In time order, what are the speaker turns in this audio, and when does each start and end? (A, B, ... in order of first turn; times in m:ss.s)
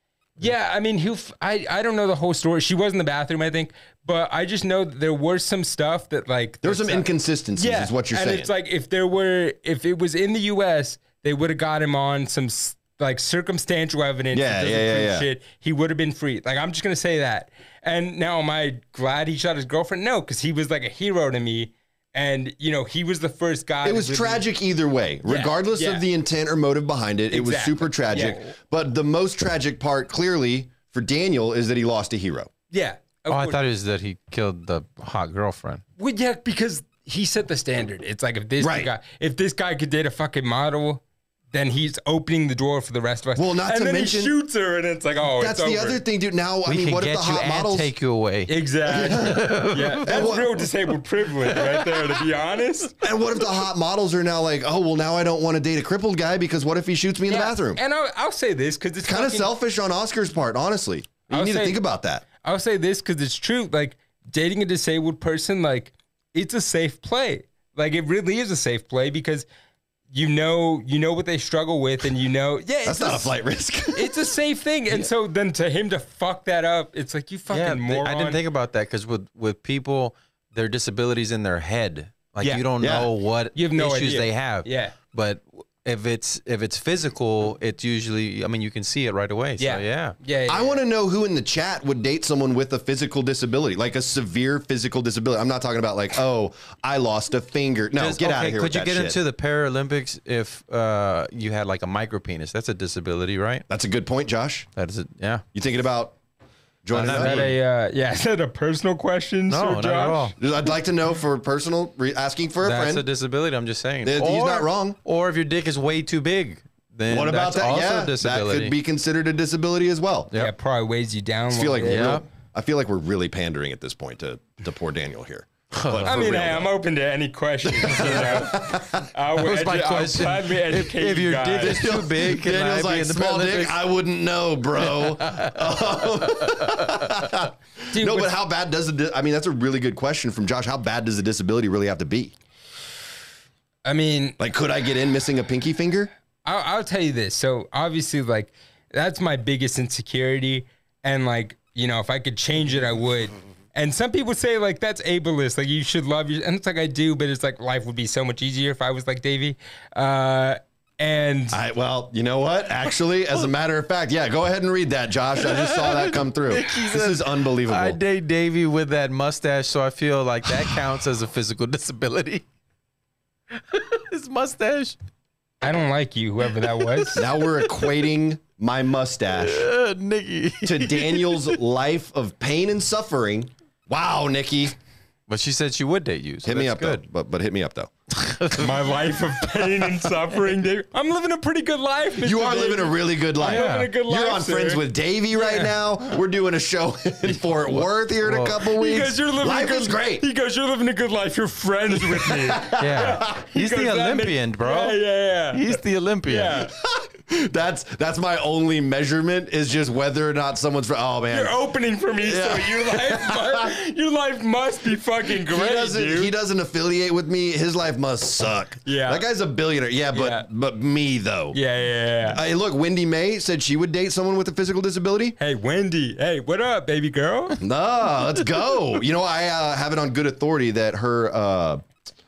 0:00.4-0:24.4 A
0:06.6-0:08.5 B
0:14.3-0:15.2 B
0:23.8-0:32.5 B
0:25.2-0:26.0 A
0:27.3-0:28.5 A
0:32.7-0:33.6 A
0:33.3-0:35.8 C
0:36.0-0:46.0 A
0:38.6-0:38.9 B
0:43.4-0:44.3 B
0:45.4-0:47.9 B
0:46.6-0:50.4 C
0:48.5-0:53.0 A
0:48.8-0:50.5 B
0:51.4-0:52.2 C
0:53.0-0:57.8 B
0:57.3-0:59.5 A
0:59.0-1:02.2 B
1:01.3-1:01.8 A
1:02.4-1:09.5 A
1:10.1-1:13.3 A
1:12.8-1:14.3 B
1:13.9-1:18.4 A
1:17.5-1:30.2 C
1:22.8-1:23.1 B
1:23.5-1:24.9 A
1:29.6-1:30.8 A
1:30.5-1:39.2 B
1:38.0-1:43.6 C
1:43.7-1:44.7 B
1:44.8-1:45.4 C
1:45.5-1:46.1 B
1:46.8-1:47.5 B
1:46.9-1:47.5 C
1:47.0-1:50.3 A
1:49.5-1:50.3 C
1:50.4-1:53.0 B
1:52.6-1:58.7 C
1:54.0-1:55.0 B
1:57.1-2:00.3 B
2:00.3-2:02.2 A
2:01.5-2:06.7 B
2:01.8-2:02.2 C
2:05.7-2:06.1 C
2:06.0-2:11.9 A
2:07.7-2:09.0 B
2:09.4-2:13.8 C
2:11.6-2:22.3 B
2:14.8-2:15.6 C
2:16.5-2:16.9 C
2:17.9-2:18.3 A
2:23.8-2:24.4 A
2:24.4-2:26.1 B
2:26.4-2:41.6 A
2:41.5-2:48.0 B
2:45.4-2:52.4 C
2:53.5-2:55.0 C
2:55.6-2:57.2 A
2:56.6-2:57.9 C
2:57.2-2:59.7 B
2:59.4-3:01.6 C
3:00.6-3:04.8 B
3:05.3-3:07.0 C
3:06.4-3:07.9 B
3:08.1-3:08.8 C
3:08.6-3:15.7 A
3:12.2-3:20.2 B
3:13.4-3:13.9 C
3:17.8-3:18.6 C
3:18.6-3:26.7 A
3:22.0-3:23.3 B
3:22.8-3:26.6 C
3:26.7-3:31.5 B
3:31.3-3:36.3 A
3:32.2-3:33.7 B
3:35.3-3:41.6 B
3:38.8-3:39.2 A
3:40.1-3:40.5 A
3:41.5-3:42.4 A
3:42.3-3:45.4 B
3:45.4-3:47.6 A
3:47.6-3:51.8 B